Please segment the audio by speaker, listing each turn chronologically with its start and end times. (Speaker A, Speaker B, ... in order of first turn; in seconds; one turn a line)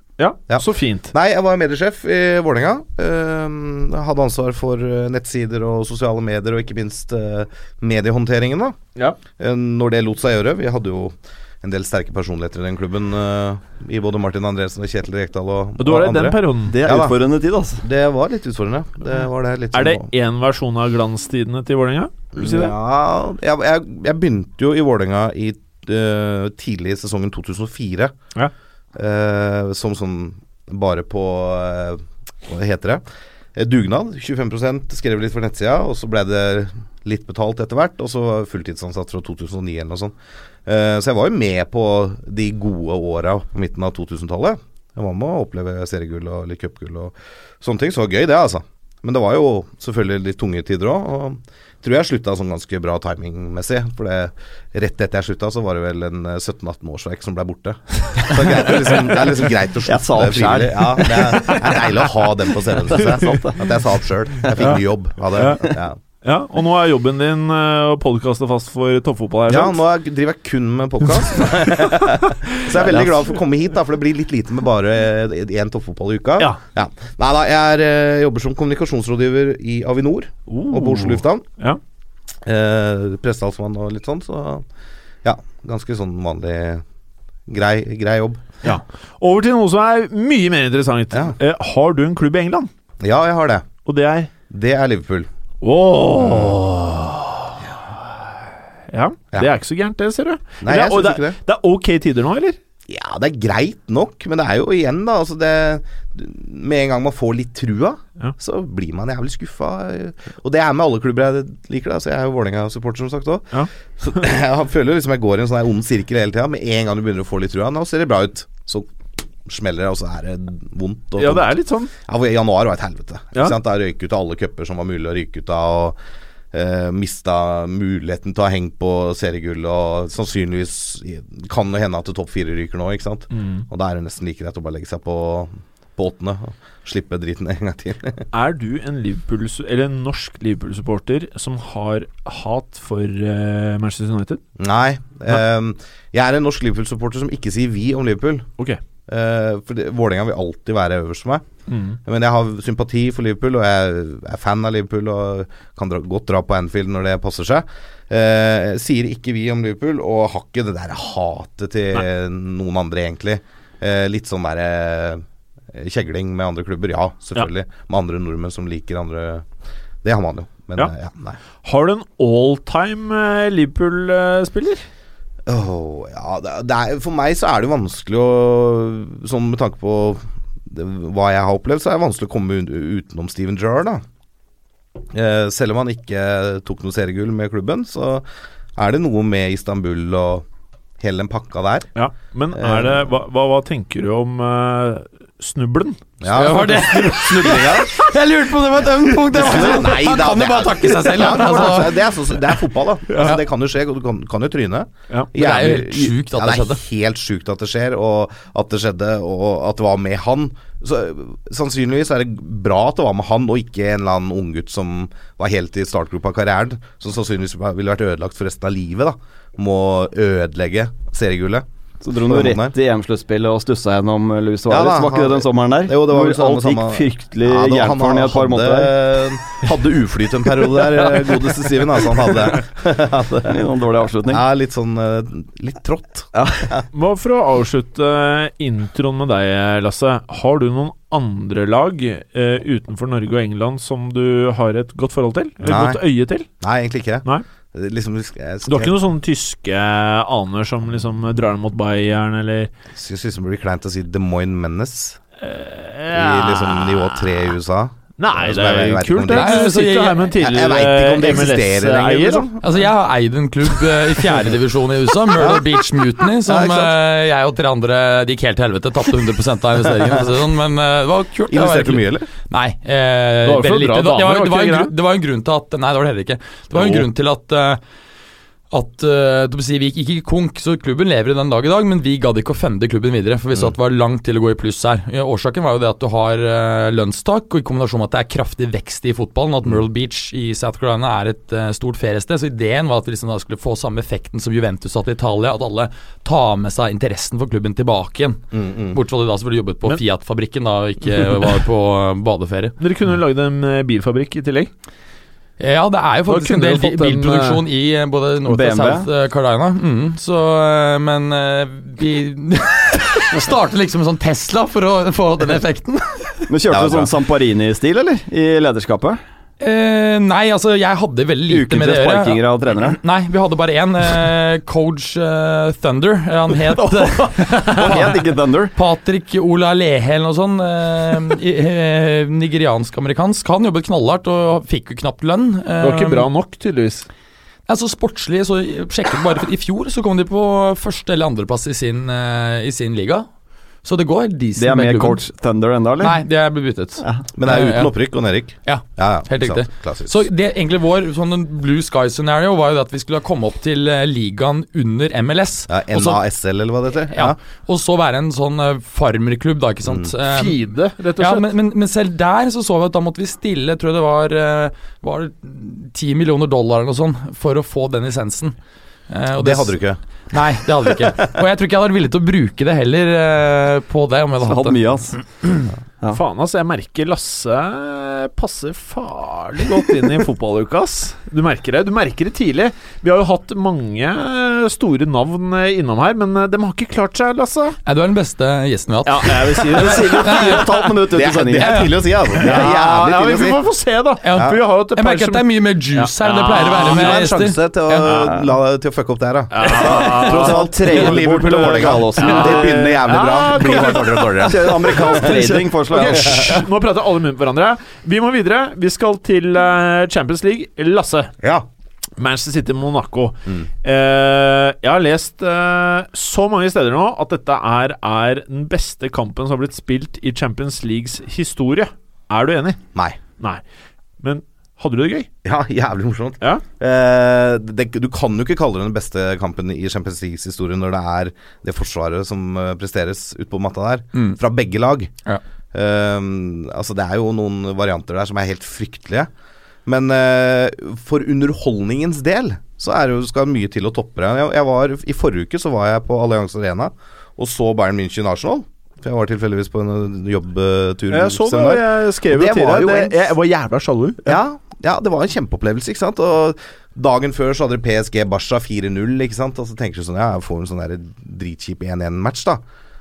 Speaker A: 0.2-1.1
Speaker B: 0.5-8.8
Speaker B: 9.3-17.2
Speaker A: 15.8-16.8
Speaker C: 16.7-17.8
Speaker B: 17.8-20.1
Speaker A: 19.7-22.7
Speaker B: 22.4-28.1
Speaker B: 28.9-33.0
Speaker B: 33.5-40.1
Speaker B: 40.7-66.0
Speaker C: 59.9-61.9
Speaker C: 62.8-63.7
Speaker C: 64.5-64.8
Speaker A: 64.6-65.6
Speaker C: 65.4-65.8
Speaker A: 66.2-69.8
Speaker B: 69.5-81.4
Speaker A: 72.8-73.1
Speaker A: 80.5-81.8
Speaker B: 82.5-84.7
Speaker B: 85.2-86.8
Speaker B: 87.5-88.5
Speaker A: 88.6-92.7
Speaker B: 93.0-93.7
Speaker A: 93.8-94.3
Speaker B: 94.5-95.3
Speaker A: 95.6-97.6
Speaker B: 96.1-96.6
Speaker A: 98.9-102.6
Speaker B: 100.6-101.4
Speaker B: 102.9-118.9
Speaker B: 119.5-126.0
Speaker A: 121.2-121.9
Speaker B: 126.5-138.2
Speaker A: 133.3-133.7
Speaker A: 138.3-144.4
Speaker B: 144.6-148.5
Speaker B: 149.1-151.4
Speaker A: 151.7-152.0
Speaker B: 152.1-169.5
Speaker B: 170.0-171.4
Speaker A: 171.6-174.8
Speaker B: 175.5-184.0
Speaker B: 185.1-188.2
Speaker B: 188.8-190.4
Speaker B: 191.0-191.9
Speaker A: 192.0-196.0
Speaker B: 192.6-193.1
Speaker B: 196.2-198.0
Speaker D: 196.3-202.5
Speaker B: 199.2-221.7
Speaker A: 203.1-203.4
Speaker D: 205.3-206.8
Speaker C: 222.0-229.0
Speaker B: 222.2-222.7
Speaker B: 224.7-233.6
Speaker C: 233.4-234.4
Speaker B: 234.3-236.8
Speaker C: 236.3-236.7
Speaker A: 236.9-246.5
Speaker B: 245.6-246.0
Speaker B: 246.6-248.9
Speaker A: 248.7-252.7
Speaker B: 252.9-255.2
Speaker A: 255.4-257.6
Speaker B: 256.1-259.7
Speaker A: 258.2-262.5
Speaker D: 259.3-260.3
Speaker B: 260.4-262.7
Speaker D: 262.6-277.8
Speaker B: 265.4-265.7
Speaker B: 266.5-266.9
Speaker B: 270.0-270.3
Speaker B: 271.5-272.3
Speaker A: 273.4-274.9
Speaker A: 276.8-277.0
Speaker D: 278.7-302.8
Speaker B: 298.5-299.0
Speaker A: 302.8-304.7
Speaker D: 305.6-316.5
Speaker A: 306.3-307.6
Speaker C: 308.5-309.1
Speaker C: 316.5-319.2
Speaker B: 316.7-317.1
Speaker D: 319.6-328.2
Speaker C: 321.5-323.0
Speaker C: 326.6-328.7
Speaker D: 328.7-336.3
Speaker A: 335.8-337.1
Speaker D: 337.7-343.3
Speaker D: 343.8-345.2
Speaker C: 344.6-346.2
Speaker D: 346.0-347.9
Speaker B: 347.4-350.2
Speaker D: 348.6-356.2
Speaker B: 355.7-357.4
Speaker D: 357.1-360.6
Speaker A: 360.3-361.5
Speaker D: 361.2-368.6
Speaker D: 369.1-369.8
Speaker B: 369.4-370.0
Speaker D: 370.3-374.8
Speaker B: 370.9-371.3
Speaker C: 374.4-375.2
Speaker A: 376.1-387.8
Speaker D: 387.9-390.8
Speaker A: 389.1-390.9
Speaker C: 389.7-391.9
Speaker B: 391.1-393.6
Speaker D: 391.6-391.9
Speaker A: 392.4-397.4
Speaker D: 394.2-398.2
Speaker B: 394.3-394.6
Speaker B: 396.5-405.4
Speaker A: 398.1-398.4
Speaker C: 398.1-398.4
Speaker A: 399.5-411.3
Speaker D: 399.6-400.3
Speaker C: 399.8-403.1
Speaker C: 404.4-406.6
Speaker B: 406.1-406.6
Speaker A: 412.2-422.8
Speaker A: 424.2-425.3
Speaker B: 425.4-435.1
Speaker D: 434.1-434.4
Speaker B: 435.7-439.3
Speaker B: 439.9-453.2
Speaker A: 451.1-454.4
Speaker B: 454.3-462.6